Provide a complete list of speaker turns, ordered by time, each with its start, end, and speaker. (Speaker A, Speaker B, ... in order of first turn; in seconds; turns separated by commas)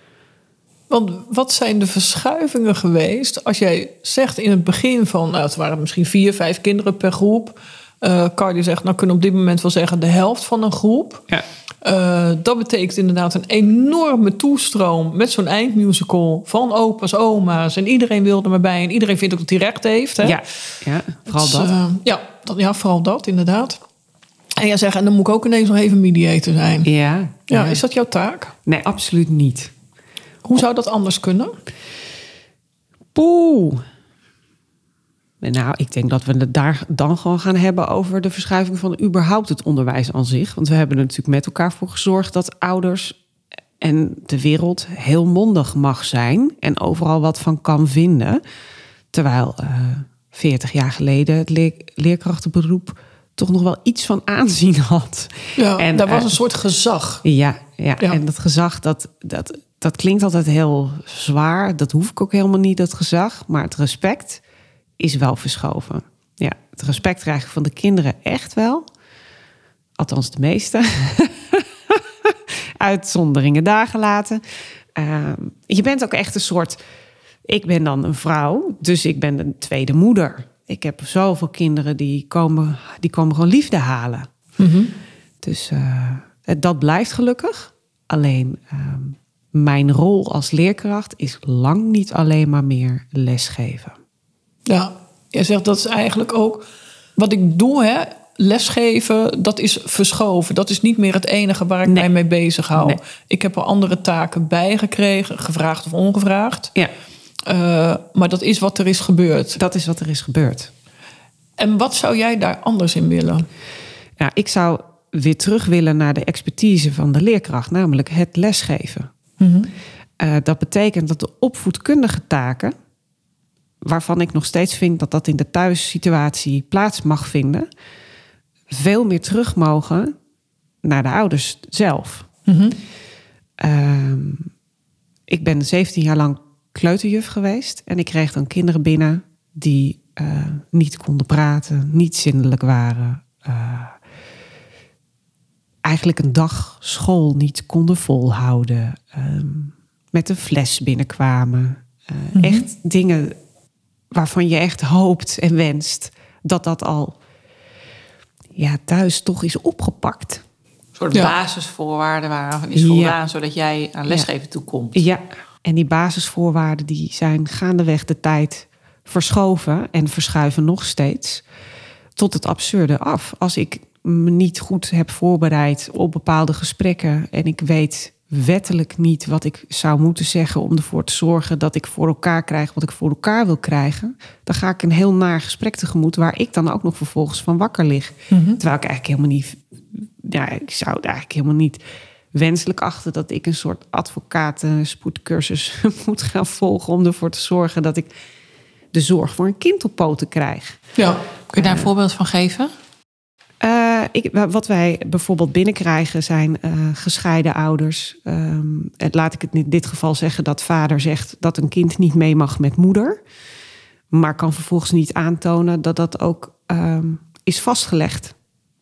Speaker A: 0.9-11.2, Speaker A: 11.8-20.4, Speaker B: 20.2-21.7, Speaker A: 21.3-23.8, Speaker A: 24.6-26.9, Speaker B: 26.8-27.8, Speaker A: 27.5-28.5, Speaker B: 28.7-29.7, Speaker A: 30.4-31.6, Speaker B: 33.1-33.8, Speaker B: 35.4-43.2, Speaker B: 43.8-48.4, Speaker B: 49.1-56.4, Speaker A: 55.6-57.2, Speaker B: 57.2-64.4, Speaker B: 65.0-68.8, Speaker B: 70.0-74.4, Speaker B: 75.0-76.8, Speaker B: 77.5-84.3, Speaker A: 84.6-84.9, Speaker B: 85.4-94.0, Speaker A: 94.7-96.7, Speaker A: 97.2-106.7, Speaker A: 107.5-109.6, Speaker B: 109.6-110.7, Speaker A: 111.6-113.5, Speaker B: 114.2-119.1, Speaker A: 119.4-119.7, Speaker B: 120.2-122.8, Speaker B: 123.8-127.7, Speaker B: 128.7-130.1, Speaker B: 130.8-132.3, Speaker A: 132.5-132.8, Speaker B: 133.6-134.5, Speaker B: 135.3-144.0, Speaker B: 145.8-153.4, Speaker A: 152.3-152.7, Speaker B: 154.1-157.2, Speaker B: 158.6-160.4, Speaker C: 161.0-165.0, Speaker B: 162.8-163.2, Speaker B: 164.9-171.4, Speaker B: 172.2-191.8, Speaker A: 188.3-188.6, Speaker B: 192.3-198.1, Speaker B: 198.9-200.8, Speaker A: 201.0-201.2, Speaker C: 201.5-202.7, Speaker B: 201.5-201.9, Speaker B: 203.6-213.2, Speaker B: 214.1-218.3